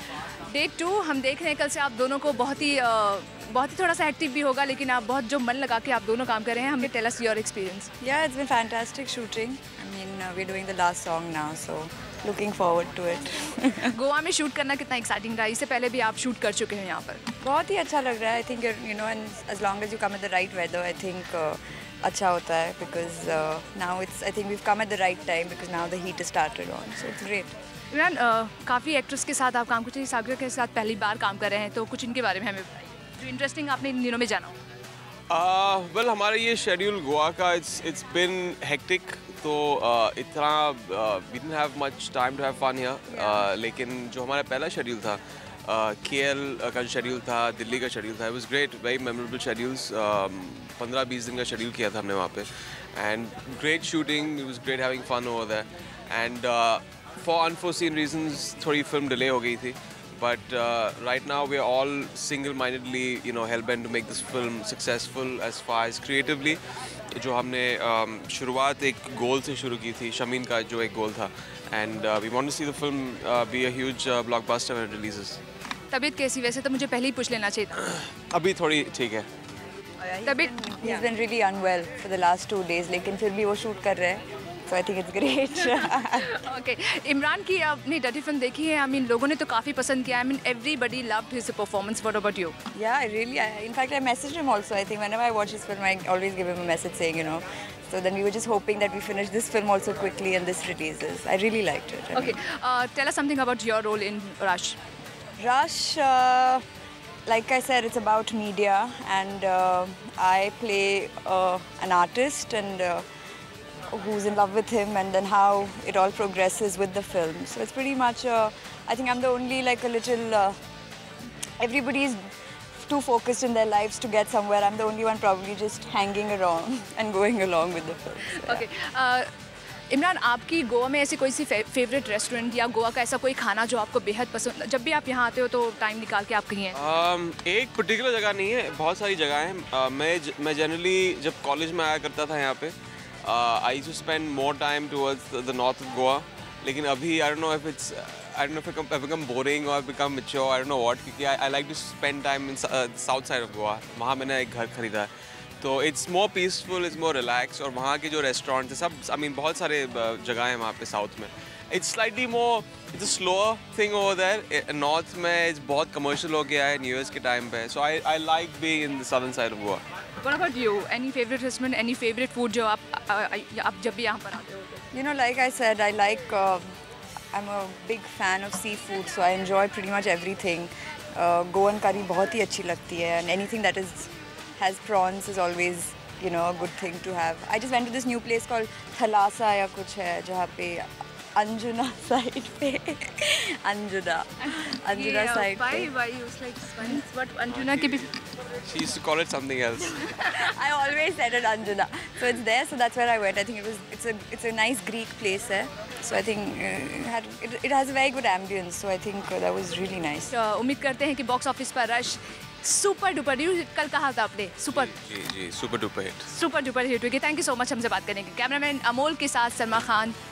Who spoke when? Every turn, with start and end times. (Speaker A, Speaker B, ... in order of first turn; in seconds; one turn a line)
Speaker A: 0.5-7.9
Speaker B: 8.0-13.9
Speaker A: 13.8-17.2
Speaker B: 17.4-27.5
Speaker A: 27.9-34.5
Speaker C: 35.3-66.6
Speaker C: 67.1-75.4
Speaker A: 75.9-77.8
Speaker C: 77.8-79.3
Speaker B: 80.0-86.3
Speaker A: 80.2-80.5
Speaker A: 85.7-92.5
Speaker B: 92.7-102.4
Speaker A: 102.1-104.8
Speaker B: 105.4-106.6
Speaker B: 107.2-113.0
Speaker B: 113.9-120.6
Speaker B: 121.6-122.2
Speaker B: 122.8-128.7
Speaker A: 128.3-129.3
Speaker A: 129.9-136.8
Speaker C: 136.7-155.1
Speaker C: 155.6-169.8
Speaker A: 170.2-174.8
Speaker B: 174.9-176.7
Speaker B: 177.3-195.9
Speaker A: 194.4-198.2
Speaker C: 198.6-200.1
Speaker A: 200.0-200.3
Speaker B: 200.2-210.3
Speaker A: 210.3-214.9
Speaker C: 214.7-216.3
Speaker A: 216.3-220.1